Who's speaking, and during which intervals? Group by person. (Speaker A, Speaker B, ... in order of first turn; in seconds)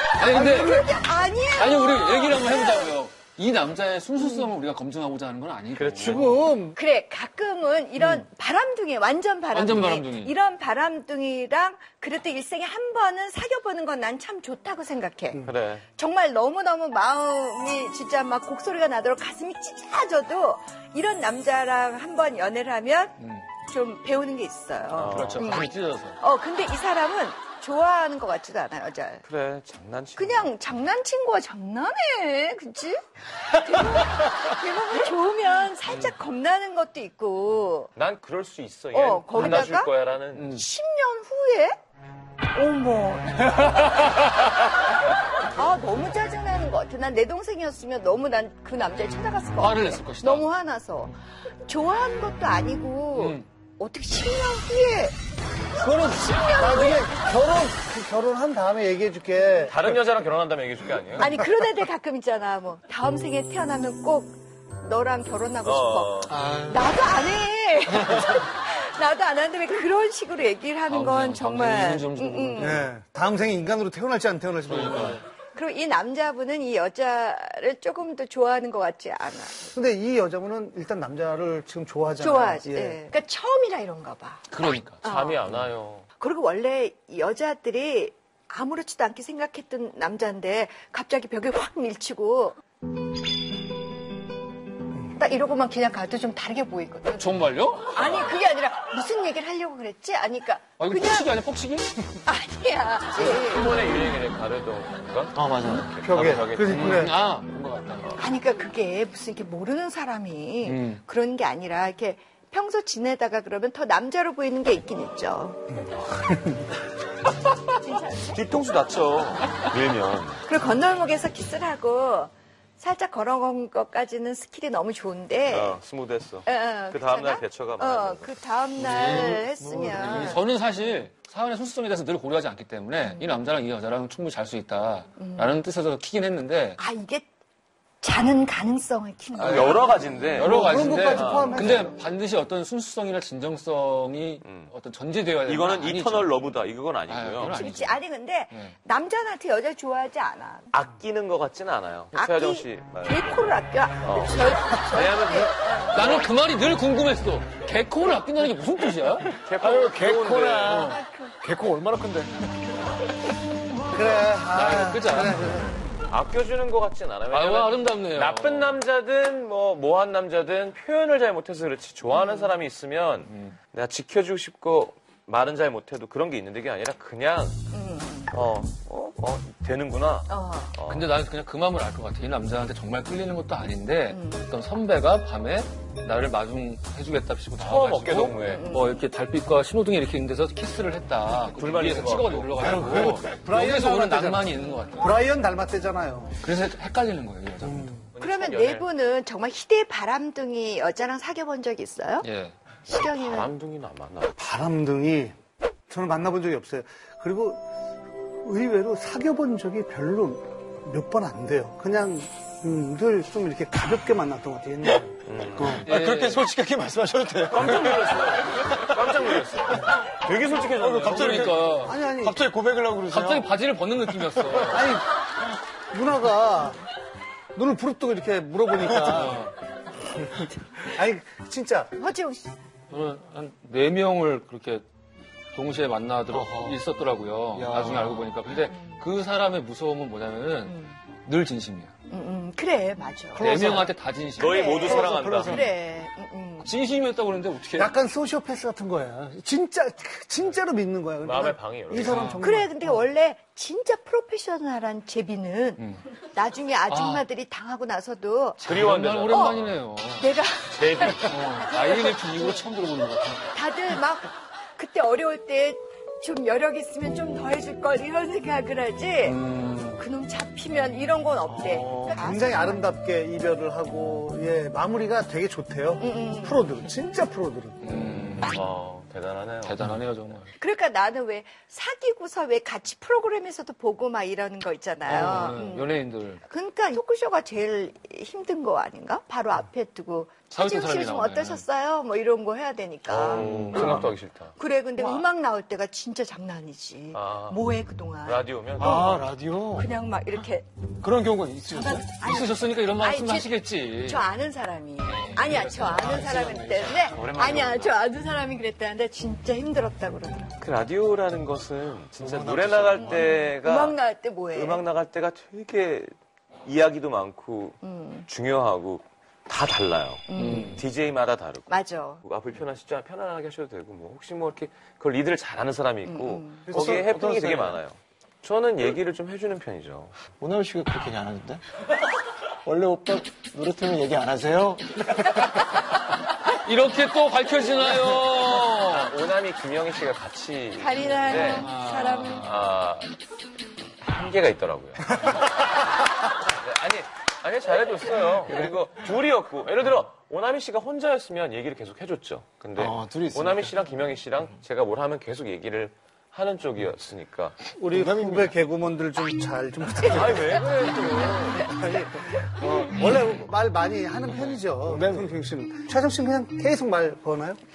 Speaker A: 0.1-0.9, 1.5-6.4, 9.5-10.3, 23.2-23.5, 25.1-26.2, 39.3-39.7, 40.4-40.7, 49.6-50.5, 53.1-53.5, 70.9-72.8, 74.7-75.2, 84.5-85.0, 97.2-98.0, 100.8-101.9, 106.7-108.1, 110.7-111.0, 128.8-129.4, 130.0-136.8, 140.3-146.5, 147.1-148.0, 155.9-159.4, 164.5-165.4, 167.3-168.8, 173.3-173.6, 180.9-195.1, 196.4-198.0, 202.2-202.6, 215.8-216.4, 221.2-222.0, 223.1-225.0, 232.9-234.8, 235.5-241.9, 243.4-244.8, 246.6-247.9, 252.0-252.5, 255.8-256.0, 256.9-257.2, 258.6-260.3, 261.2-263.5, 269.2-270.0, 277.8-278.6, 279.6-280.5, 285.1-286.4, 290.5-291.6, 293.2-294.1, 301.7-304.2, 305.1-305.5, 320.4-320.8, 336.6-339.1, 341.4-342.5
Speaker B: 0.2-2.9, 4.2-4.5, 6.7-29.2, 30.2-37.9, 38.9-39.9, 40.5-41.8, 42.5-44.1, 45.5-55.1, 55.8-57.2, 61.2-72.8, 75.5-79.6, 82.2-84.4, 85.0-85.5, 86.2-92.6, 95.2-101.3, 102.2-103.7, 108.2-115.7, 117.8-118.4, 120.5-125.8, 126.5-130.4, 133.0-133.4, 135.2-135.6, 136.8-137.3, 138.0-141.1, 147.5-150.7, 152.1-156.2, 172.1-172.4, 177.7-178.3, 180.3-180.8, 184.1-184.5, 188.5-189.0, 194.6-195.0, 198.2-202.3, 202.9-203.5, 232.0-232.6, 238.7-239.1, 240.7-241.0, 242.1-243.7, 244.4-246.7, 252.4-258.6, 259.3-259.6, 260.1-262.6, 263.5-269.4, 270.0-272.9, 276.0-276.7, 280.6-285.9, 286.4-294.1, 294.6-299.1, 299.7-300.7, 301.8-310.6, 313.0-314.9, 317.8-318.3, 320.3-320.8, 321.7-322.2, 326.1-326.8, 340.8-342.4
Speaker C: 5.7-6.3, 15.4-15.9, 24.9-25.5, 29.2-30.6, 38.0-40.5, 59.7-61.3, 65.6-66.3, 85.0-86.1, 103.2-106.8, 118.3-120.5, 125.5-128.4, 139.3-140.5, 141.1-141.6, 144.4-144.7, 145.4-147.7, 150.7-156.2, 159.4-160.9, 166.1-177.7, 178.3-181.1, 187.6-188.7, 191.5-192.6, 198.2-199.0, 202.9-204.4, 215.2-215.8, 217.5-221.6, 244.4-245.6, 251.2-252.3, 258.6-259.8, 260.7-261.5, 278.5-279.8, 293.1-294.5, 297.1-297.6, 298.2-299.3, 310.6-316.1, 316.6-330.2, 338.0-341.7, 342.4-343.1, 344.0-345.9, 346.4-357.6, 360.1-361.7
Speaker D: 6.0-6.8, 55.8-59.8, 72.6-75.2, 79.6-83.0, 106.0-107.2, 140.4-141.9, 163.9-165.8, 192.6-196.3, 204.4-205.3, 205.9-207.6, 208.4-215.1, 221.8-222.4, 224.7-225.1, 225.9-226.8, 227.6-229.5, 230.8-231.9, 247.7-253.1, 272.0-278.0, 326.7-327.1, 357.7-360.6, 361.6-367.6
Speaker E: 66.3-66.9, 105.3-105.9, 129.4-130.3, 159.6-162.4, 192.9-193.3, 215.6-218.2, 220.8-223.5, 236.3-236.8, 237.5-238.4, 243.3-243.9, 244.8-245.7, 271.6-272.2, 298.8-299.9, 301.0-302.3, 305.4-307.7, 312.1-313.5, 326.7-327.8, 330.4-331.6, 332.6-335.2, 352.8-353.7, 357.9-358.6, 364.8-365.4